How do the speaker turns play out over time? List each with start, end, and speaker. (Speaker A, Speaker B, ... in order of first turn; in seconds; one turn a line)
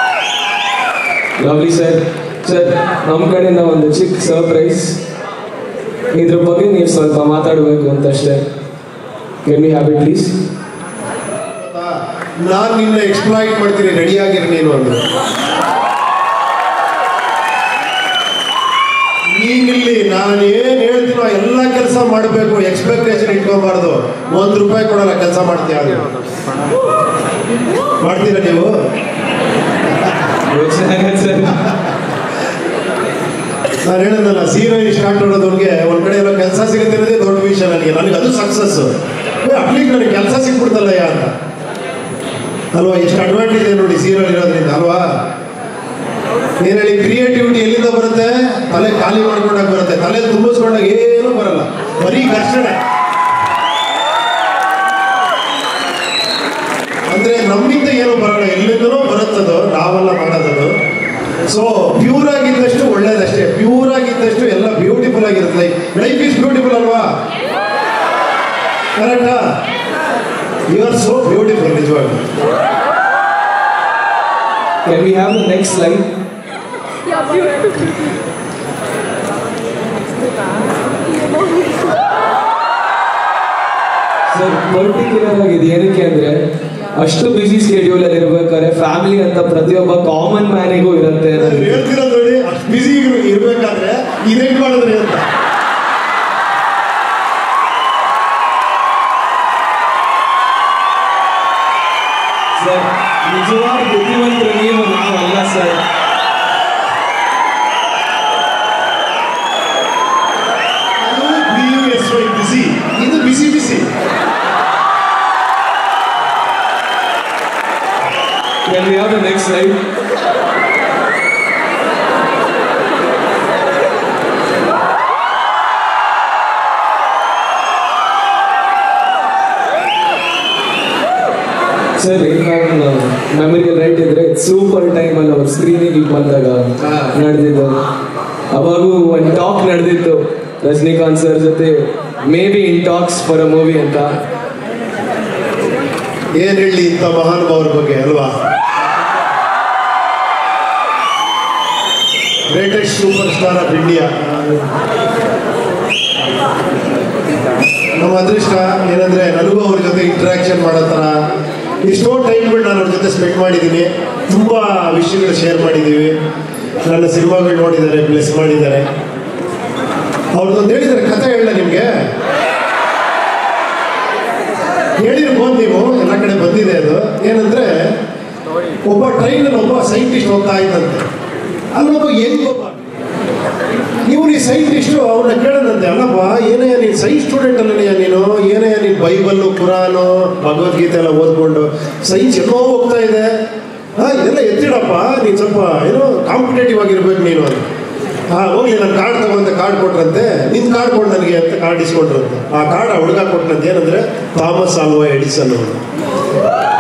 Speaker A: 1.4-5.0
Speaker A: 6.1-8.4
Speaker A: 9.4-10.3
Speaker B: 11.6-15.0
Speaker B: 19.3-26.1
Speaker B: 28.0-28.8
Speaker A: 30.5-31.6
Speaker B: 33.8-41.3
Speaker B: 42.7-45.1
Speaker B: 46.6-52.8
Speaker B: 57.1-60.8
Speaker B: 61.5-67.1
Speaker B: 69.0-69.5
Speaker B: 70.7-72.2
Speaker A: 74.8-76.1
Speaker A: 84.3-91.8
Speaker B: 91.4-95.3
Speaker A: 102.6-105.8
Speaker B: 111.0-113.9
Speaker A: 118.7-119.8
Speaker A: 132.0-137.8
Speaker A: 138.5-144.2
Speaker B: 146.4-148.3
Speaker B: 152.5-154.7
Speaker B: 158.0-161.2
Speaker B: 161.8-166.2
Speaker B: 166.8-168.9
Speaker B: 170.3-172.0
Speaker B: 175.0-177.9
Speaker B: 178.9-181.1
Speaker B: 181.7-182.8
Speaker B: 184.1-193.3
Speaker B: 194.0-197.7
Speaker B: 198.3-205.8